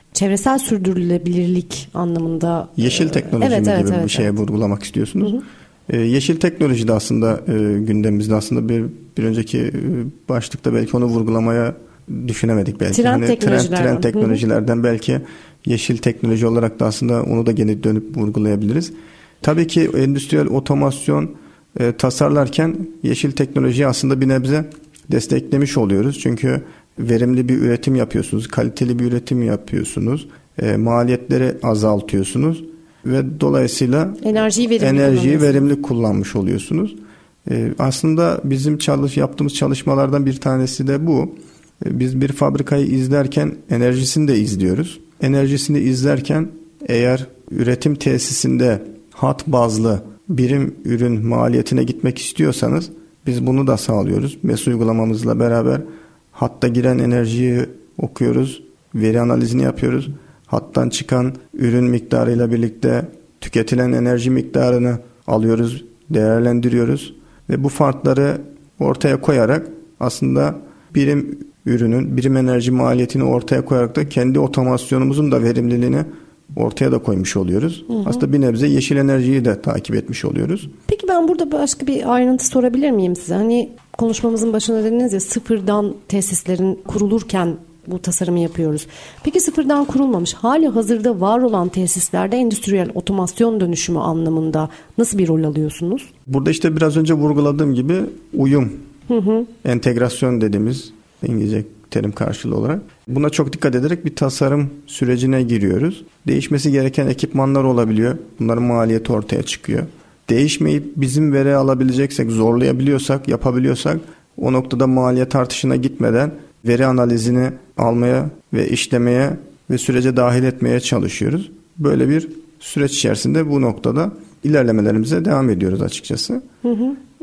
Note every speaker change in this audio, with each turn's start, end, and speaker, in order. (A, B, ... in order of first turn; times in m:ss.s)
0:00.1-0:04.3 A
0:02.8-1:20.7 B
0:12.9-0:14.4 A
0:34.2-0:35.7 A
1:20.9-1:36.1 A
1:36.3-1:38.8 B
1:39.1-1:39.5 A
1:39.6-2:06.4 B
2:06.6-2:07.0 A